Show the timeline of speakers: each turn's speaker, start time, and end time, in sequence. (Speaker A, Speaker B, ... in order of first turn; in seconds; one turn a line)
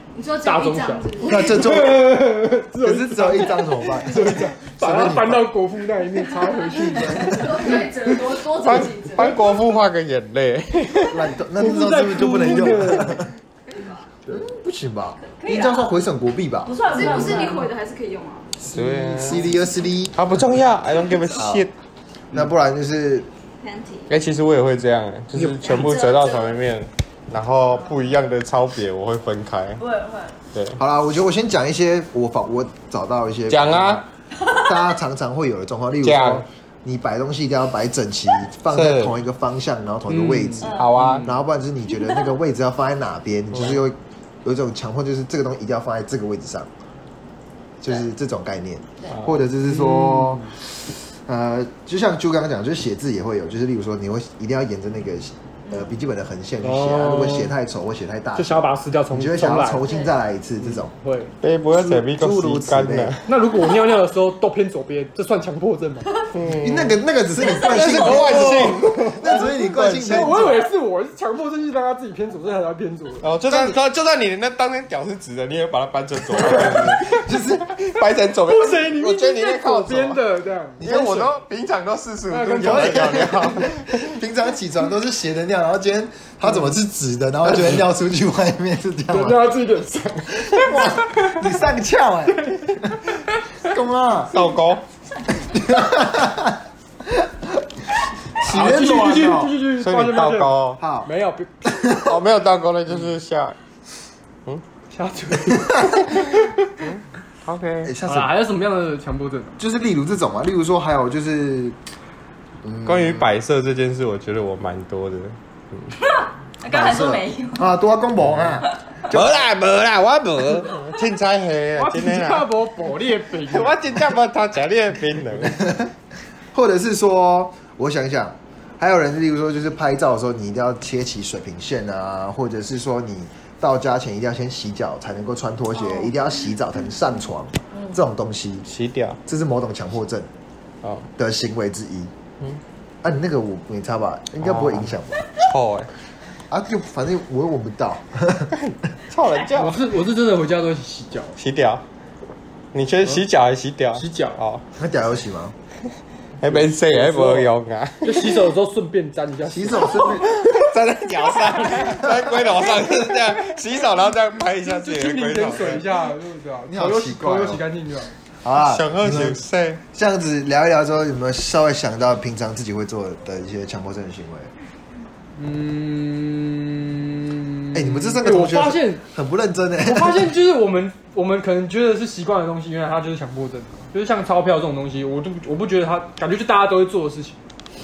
Speaker A: 0.1-1.6
Speaker B: 0.4-7.9
Speaker C: 1.2-2.3
Speaker C: 2.8-5.5
Speaker A: 6.8-9.5
Speaker C: 7.0-7.4
Speaker D: 8.5-11.3
Speaker C: 11.1-13.3
Speaker B: 11.6-13.2
Speaker E: 13.7-14.0
Speaker C: 14.3-17.5
Speaker E: 15.2-16.0
Speaker E: 16.6-17.7
Speaker A: 16.8-18.5
Speaker C: 18.6-20.2
Speaker D: 18.7-19.5
Speaker D: 20.1-21.7
Speaker C: 21.3-21.7
Speaker C: 22.3-23.3
Speaker E: 23.6-24.1
Speaker D: 24.1-29.8
Speaker B: 25.3-25.6
Speaker E: 25.6-26.6
Speaker E: 27.7-28.1
Speaker E: 29.8-30.4
Speaker D: 30.5-30.8
Speaker C: 30.8-34.0
Speaker D: 33.5-34.0
Speaker C: 34.6-46.7
Speaker D: 36.0-36.5
Speaker D: 38.7-39.2
Speaker B: 40.1-41.4
Speaker E: 40.6-41.0
Speaker D: 40.6-41.3
Speaker E: 42.0-42.3
Speaker D: 43.5-43.8
Speaker C: 47.8-50.4
Speaker D: 49.0-49.4
Speaker B: 49.6-50.5
Speaker C: 51.2-60.9
Speaker E: 55.6-55.9
Speaker B: 56.6-57.5
Speaker B: 58.4-59.8
Speaker E: 59.8-60.1
Speaker B: 60.6-61.3
Speaker D: 61.4-63.3
Speaker C: 61.7-63.1
Speaker B: 63.2-66.1
Speaker D: 66.3-70.6
Speaker C: 66.6-70.6
Speaker B: 67.5-73.3
Speaker D: 73.2-80.2
Speaker C: 73.5-73.7
Speaker C: 76.5-77.7
Speaker B: 78.4-81.1
Speaker C: 80.8-81.3
Speaker D: 80.8-84.0
Speaker B: 82.3-83.5
Speaker C: 82.6-89.4
Speaker B: 86.5-86.8
Speaker B: 89.1-91.4
Speaker C: 90.3-93.0
Speaker C: 93.6-94.4
Speaker D: 94.3-94.8
Speaker C: 95.4-97.6
Speaker C: 98.3-99.5
Speaker B: 98.5-101.9
Speaker D: 99.7-100.8
Speaker C: 100.8-101.1
Speaker C: 101.6-102.1
Speaker D: 102.0-103.6
Speaker B: 104.9-106.3
Speaker D: 106.1-107.9
Speaker C: 107.8-108.3
Speaker B: 108.0-109.6
Speaker C: 109.6-111.8
Speaker C: 112.6-113.3
Speaker D: 112.8-115.9
Speaker E: 116.0-117.7
Speaker C: 116.7-119.4
Speaker D: 119.1-122.5
Speaker B: 121.8-123.8
Speaker D: 123.5-125.7
Speaker C: 125.4-125.9
Speaker C: 126.5-138.7
Speaker E: 137.7-138.0
Speaker D: 138.6-139.2
Speaker C: 139.2-140.3
Speaker D: 140.8-141.1
Speaker C: 141.2-142.1
Speaker C: 143.0-145.3
Speaker D: 144.4-145.9
Speaker C: 146.5-148.5
Speaker D: 148.5-149.9
Speaker B: 149.6-151.3
Speaker D: 151.3-151.8
Speaker D: 152.7-154.6
Speaker B: 153.9-154.4
Speaker C: 154.8-155.5
Speaker D: 156.4-158.4
Speaker B: 156.4-157.5
Speaker B: 158.0-160.1
Speaker C: 159.4-160.3
Speaker D: 160.2-165.9
Speaker B: 161.6-162.1
Speaker B: 164.6-168.1
Speaker C: 166.7-167.6
Speaker C: 168.4-169.4
Speaker D: 168.6-169.8
Speaker C: 169.9-174.5
Speaker B: 175.3-179.0
Speaker C: 177.7-180.3
Speaker B: 179.8-187.4